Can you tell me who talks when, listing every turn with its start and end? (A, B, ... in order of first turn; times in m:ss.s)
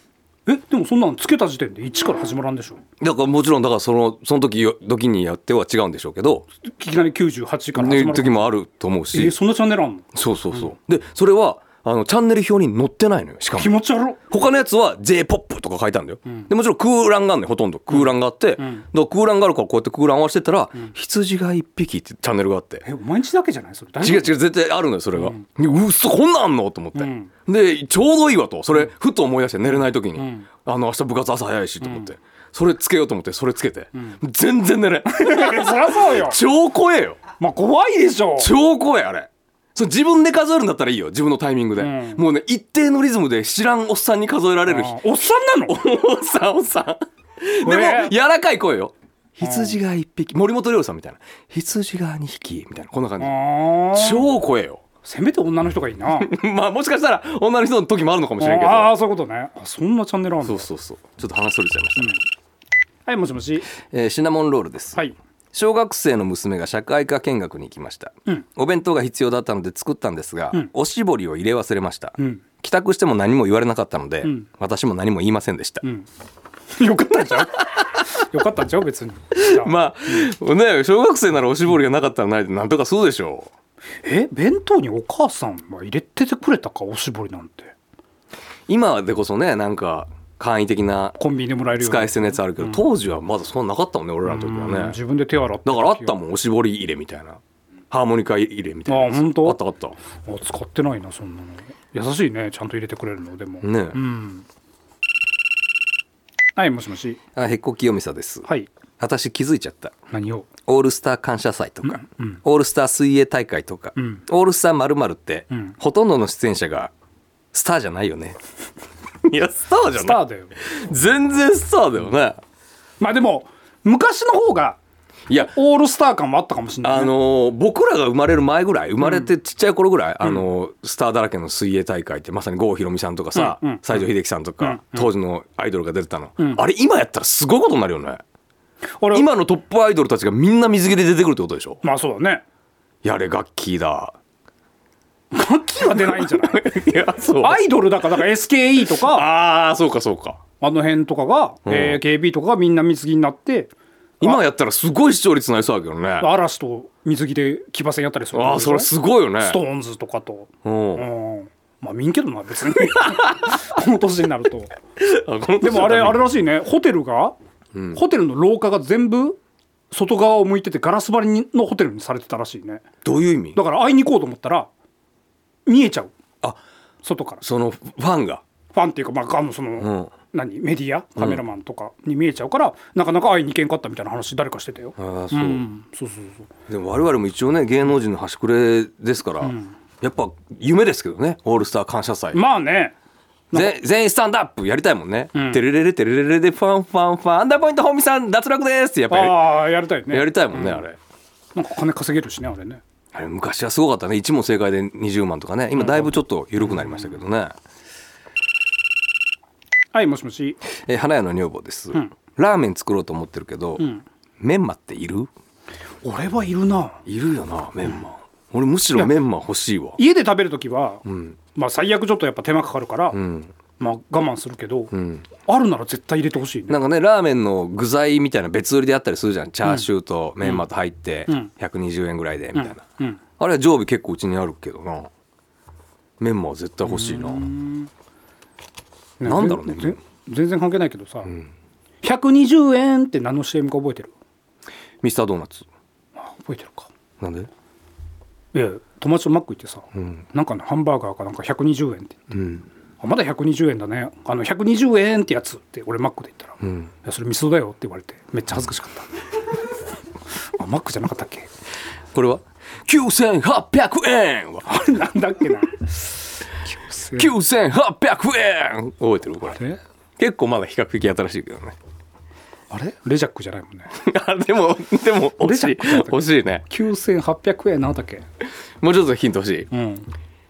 0:00.4-0:02.8 A
0:03.0-0:06.4 B
0:06.6-0:08.5 A
0:07.7-0:09.3 B
0:09.1-0:10.7 A
0:10.1-0:22.8 B
0:13.5-0:14.2 A
0:17.9-0:18.8 A
0:22.8-0:24.4 A
0:24.0-0:37.2 B
0:25.1-0:25.4 A
0:26.9-0:27.3 A
0:30.2-0:30.5 A
0:31.8-0:32.1 A
0:35.1-0:36.4 A
0:37.4-0:38.5 A
0:38.4-0:45.0 B
0:41.8-0:42.2 A
0:44.7-0:45.8 A
0:45.6-0:54.8 B
0:47.6-0:48.1 A
0:49.4-0:49.8 A
0:53.2-0:54.3 A
0:55.0-0:56.3 A
0:56.1-0:58.9 B
0:58.4-1:00.6 A
1:00.4-1:02.2 B
1:02.0-1:02.2 A
1:03.0-1:03.7 A
1:03.9-1:05.0 B
1:05.5-1:15.8 B
1:12.2-1:12.4 A
1:16.7-1:20.3 A
1:17.3-1:17.9 B
1:19.3-1:23.5 B
1:24.0-1:27.7 A
1:28.7-1:31.2 B
1:31.2-1:32.8 A
1:31.7-1:35.0 B
1:34.2-1:36.2 A
1:35.6-1:37.4 B
1:37.9-1:40.0 B
1:38.9-1:39.6 A
1:40.2-1:44.4 A
1:43.6-1:44.0 B
1:46.6-1:47.2 A
1:47.3-1:48.5 B
1:48.4-1:48.7 A
1:49.0-1:49.9 B
1:50.1-1:50.5 A
1:50.7-1:56.9 B
1:51.8-1:52.4 A
1:54.0-1:54.2 A
1:57.5-1:58.4 B
1:59.2-2:02.4 B
2:00.0-2:00.5 A
2:03.0-2:04.8 A
2:05.3-2:05.5 B
2:05.5-2:07.1 A
2:06.8-2:18.2 B
2:13.3-2:14.0 A
2:14.6-2:15.1 A
2:19.0-2:19.2 A
2:19.1-2:21.8 B
2:21.8-2:22.4 A
2:23.0-2:24.2 B
2:25.3-2:26.6 A
2:26.0-2:27.6 B
2:27.4-2:29.2 A
2:28.9-2:30.4 B
2:30.6-2:34.4 A
2:31.6-2:32.0 B
2:34.2-2:36.3 B
2:36.2-2:44.7 A
2:38.3-2:39.6 B
2:40.6-2:41.1 B
2:45.0-2:46.3 B
2:45.6-2:47.3 A
2:47.7-2:48.0 B
2:47.9-2:49.4 A
2:49.9-2:52.8 A
2:53.0-2:53.6 B
2:53.5-2:54.7 A
2:55.6-2:56.1 A
2:57.0-2:57.4 A
2:57.4-2:58.4 B
2:58.7-3:06.4 A
2:59.8-3:00.1 B
3:01.2-3:01.4 B
3:05.0-3:05.6 B
3:06.7-3:12.4 B
3:09.4-3:09.7 A
3:12.3-3:12.9 A
3:13.5-3:21.0 B
3:15.3-3:15.6 A
3:19.1-3:20.8 A
3:21.5-3:22.8 A
3:23.1-3:27.6 B
3:25.7-3:26.1 A
3:26.7-3:27.0 A
3:29.9-3:30.6 A
3:30.8-3:33.8 B
3:33.8-3:34.0 A
3:34.4-3:35.3 B
3:36.0-3:37.0 A
3:37.0-3:40.0 B
3:40.0-3:41.0 A
3:41.0-3:41.4 B
3:41.5-3:43.2 A
3:43.1-3:43.5 B
3:43.8-3:44.9 A
3:44.9-3:45.2 B
3:45.4-3:46.8 A
3:46.7-3:52.8 B
3:52.5-3:53.2 A
3:53.4-3:55.1 B
3:56.2-3:57.5 B
3:56.8-3:57.9 A
3:59.2-4:01.3 A
3:59.2-4:00.0 B
4:02.0-4:04.1 A
4:05.0-4:05.6 B
4:06.2-4:06.9 A
4:07.2-4:07.5 B
4:08.5-4:12.2 A
4:09.9-4:10.2 B
4:12.3-4:12.7 B
4:13.0-4:19.2 A
4:16.6-4:16.9 B
4:20.6-4:21.5 A
4:22.1-4:24.7 B
4:24.6-4:27.3 A
4:27.1-4:29.6 B
4:29.5-4:29.8 A
4:30.2-4:31.7 B
4:32.7-4:33.9 A
4:33.9-4:36.6 B
4:35.4-4:38.2 A
4:38.8-4:39.7 B
4:39.7-4:40.1 A